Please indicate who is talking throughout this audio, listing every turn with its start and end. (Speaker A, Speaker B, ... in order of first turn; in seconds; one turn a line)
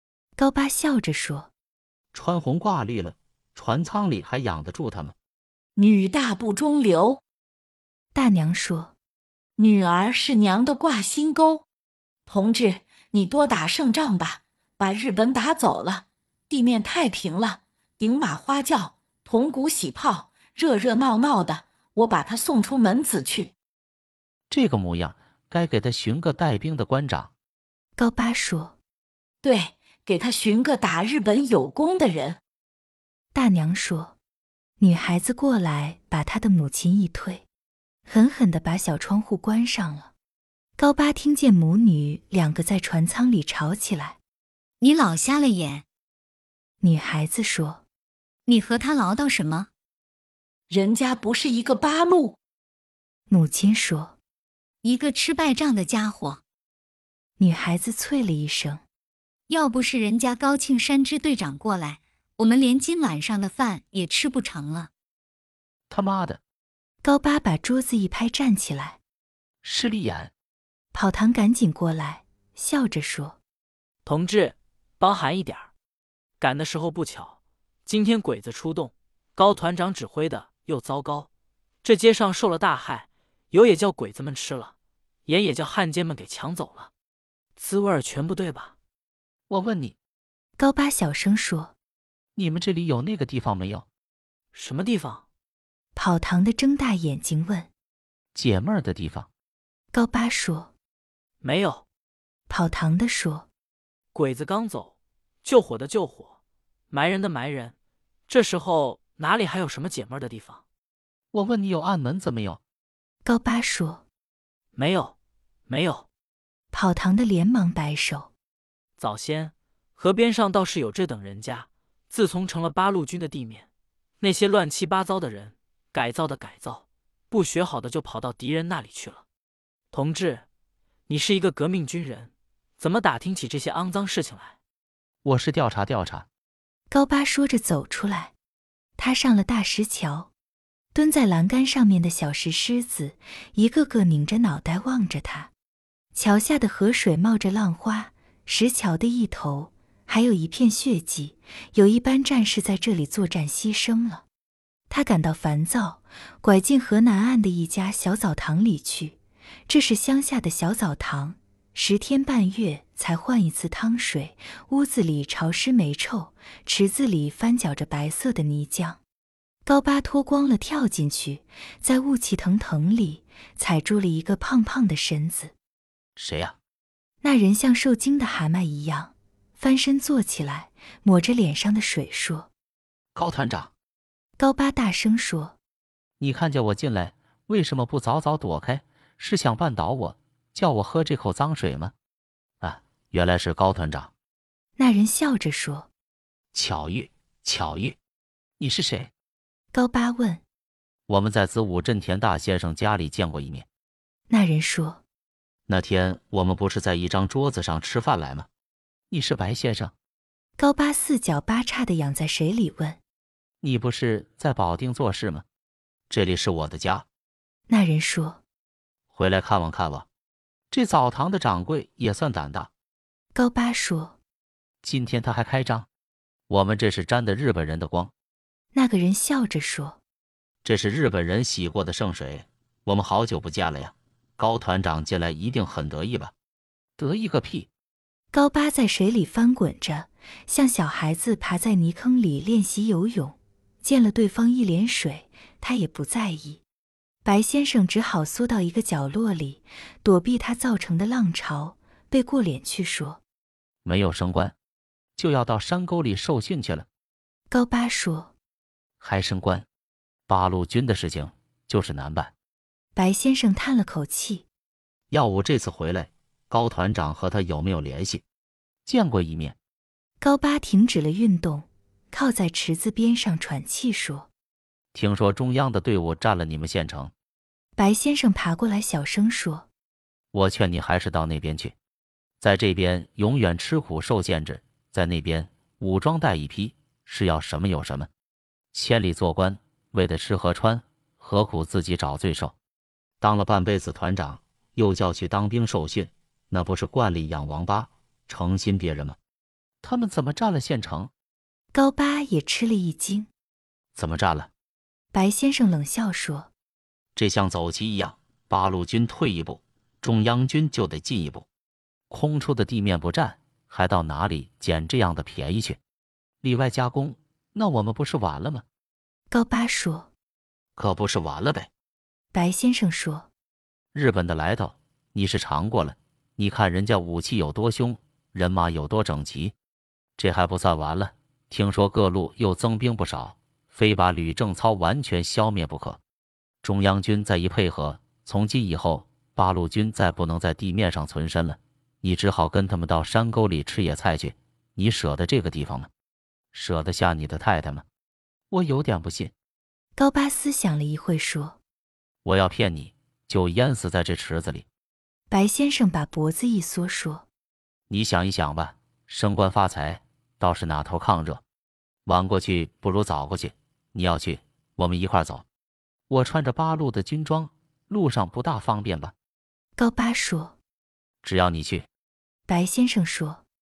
Speaker A: 0.4-1.5
Speaker B: 2.1-5.1
Speaker C: 5.8-7.2
Speaker A: 8.1-8.9
Speaker C: 9.6-11.6
Speaker C: 12.3-23.5
Speaker B: 24.5-27.3
Speaker A: 28.0-28.8
Speaker C: 29.4-32.4
Speaker A: 33.3-34.1
Speaker A: 34.8-37.4
Speaker A: 38.0-40.1
Speaker A: 40.8-44.2
Speaker D: 44.8-45.8
Speaker A: 46.8-47.8
Speaker D: 48.5-49.7
Speaker C: 50.7-52.4
Speaker A: 53.3-54.2
Speaker D: 54.8-56.4
Speaker A: 57.4-58.8
Speaker D: 59.5-64.9
Speaker B: 65.9-66.4
Speaker A: 67.0-69.0
Speaker B: 69.6-70.3
Speaker A: 70.9-73.4
Speaker E: 74.0-75.7
Speaker E: 76.4-81.3
Speaker E: 81.8-84.7
Speaker E: 85.2-86.9
Speaker E: 87.6-88.7
Speaker B: 89.5-90.0
Speaker A: 90.6-91.7
Speaker B: 92.3-93.8
Speaker E: 94.5-95.2
Speaker A: 96.0-97.7
Speaker B: 98.3-99.3
Speaker A: 99.9-100.7
Speaker E: 101.4-101.8
Speaker A: 102.5-103.5
Speaker E: 104.1-106.3
Speaker E: 106.9-107.7
Speaker E: 108.3-110.6
Speaker B: 111.3-112.6
Speaker A: 113.2-114.0
Speaker E: 114.7-115.1
Speaker E: 115.7-116.0
Speaker A: 116.7-118.3
Speaker E: 119.0-123.7
Speaker E: 124.2-129.2
Speaker E: 129.9-130.4
Speaker E: 131.1-134.6
Speaker B: 135.2-136.3
Speaker A: 136.9-138.3
Speaker A: 139.0-140.3
Speaker A: 140.9-145.5
Speaker A: 146.1-154.2
Speaker A: 154.9-169.0
Speaker A: 169.7-175.5
Speaker B: 176.2-176.6
Speaker A: 177.2-182.5
Speaker B: 183.1-183.7
Speaker A: 184.4-185.6
Speaker B: 186.2-191.9
Speaker B: 192.6-194.1
Speaker A: 194.8-195.9
Speaker B: 196.5-198.0
Speaker B: 198.6-199.1
Speaker A: 199.7-200.4
Speaker B: 201.1-203.7
Speaker A: 204.3-205.0
Speaker B: 205.7-208.5
Speaker B: 209.1-209.9
Speaker A: 210.6-213.0
Speaker B: 213.6-215.4
Speaker B: 216.1-217.1
Speaker A: 217.7-218.4
Speaker B: 219.1-220.1
Speaker B: 220.7-222.7
Speaker A: 223.3-224.2
Speaker B: 224.8-225.9
Speaker B: 226.5-228.1
Speaker A: 228.7-230.0
Speaker B: 230.6-236.3
Speaker B: 237.0-237.7
Speaker A: 238.3-246.6
Speaker A: 247.2-253.2
Speaker B: 253.8-254.5
Speaker B: 255.2-256.9
Speaker A: 257.5-258.3
Speaker B: 259.0-259.6
Speaker B: 260.3-262.3
Speaker A: 262.9-264.4
Speaker B: 265.1-268.2
Speaker B: 268.9-269.6
Speaker A: 270.2-274.3
Speaker B: 274.9-277.1
Speaker A: 277.8-279.7
Speaker B: 280.3-281.7
Speaker B: 282.4-288.1
Speaker B: 288.7-292.5
Speaker B: 293.2-299.2
Speaker B: 299.8-301.1
Speaker A: 301.7-303.3
Speaker B: 303.9-304.5
Speaker A: 305.1-306.5
Speaker B: 307.1-311.4
Speaker B: 312.1-315.8
Speaker B: 316.4-318.6
Speaker A: 319.3-320.1
Speaker B: 320.8-321.7
Speaker A: 322.3-323.3
Speaker B: 323.9-329.5
Speaker B: 330.2-336.0
Speaker B: 336.6-345.9
Speaker B: 346.5-347.8
Speaker B: 348.5-349.3
Speaker A: 349.9-351.6
Speaker B: 352.2-354.6
Speaker A: 355.3-357.2
Speaker B: 357.9-361.4
Speaker B: 362.1-365.4
Speaker B: 366.1-369.1
Speaker A: 369.8-370.6
Speaker B: 371.2-371.9
Speaker A: 372.5-373.4